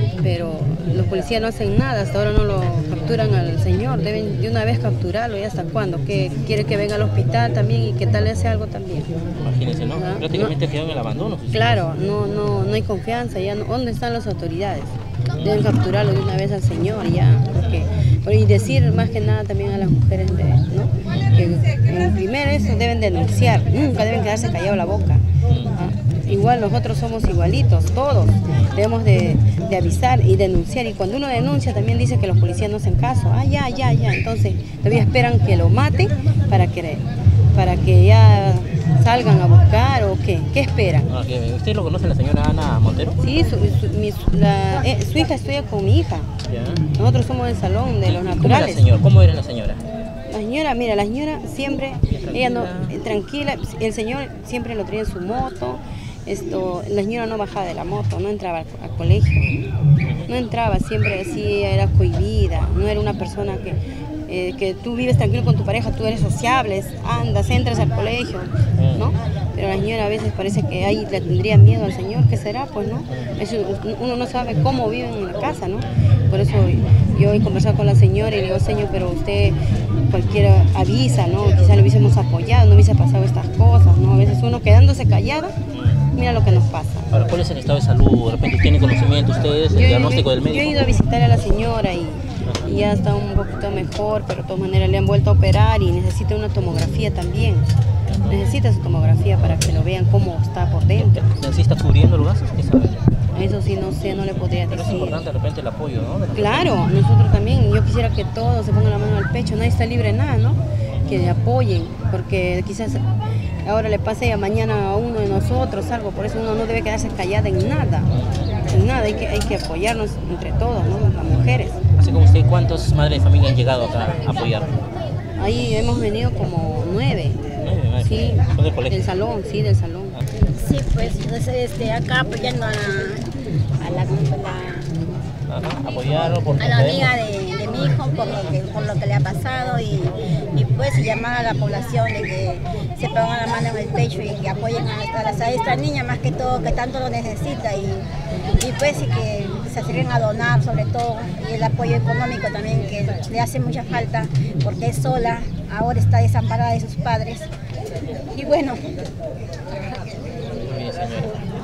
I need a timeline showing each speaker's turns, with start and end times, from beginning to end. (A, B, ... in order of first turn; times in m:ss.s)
0:00.2-0:09.1 A
0:09.4-0:11.8 B
0:09.9-0:10.6 A
0:11.5-0:41.1 A
0:25.5-0:25.8 B
0:41.1-0:43.2 B
0:43.2-0:46.3 A
0:46.4-0:46.8 B
0:46.9-0:48.8 A
0:48.0-0:49.8 B
0:50.3-0:59.5 A
0:52.1-0:52.9 B
1:00.0-1:00.3 B
1:00.3-1:25.6 A
1:08.8-1:09.2 B
1:13.1-1:13.3 B
1:25.7-1:26.0 B
1:26.1-1:27.1 A
1:27.1-1:30.9 B
1:29.7-1:37.7 A
1:38.1-1:38.4 B
1:38.3-1:41.2 A
1:40.9-1:43.1 B
1:43.3-1:45.2 A
1:44.3-1:46.8 B
1:46.3-1:53.1 A
1:53.6-1:58.1 A
1:58.1-1:58.6 B
1:58.7-2:01.8 A
2:01.3-2:04.8 B
2:05.4-2:10.2 A
2:07.6-2:09.1 B
2:10.5-2:13.3 C
2:13.8-2:14.9 C
2:15.5-2:17.1 B
2:16.6-2:28.1 C
2:28.6-2:37.5 C
2:38.3-2:38.9 C
2:40.6-2:41.4 B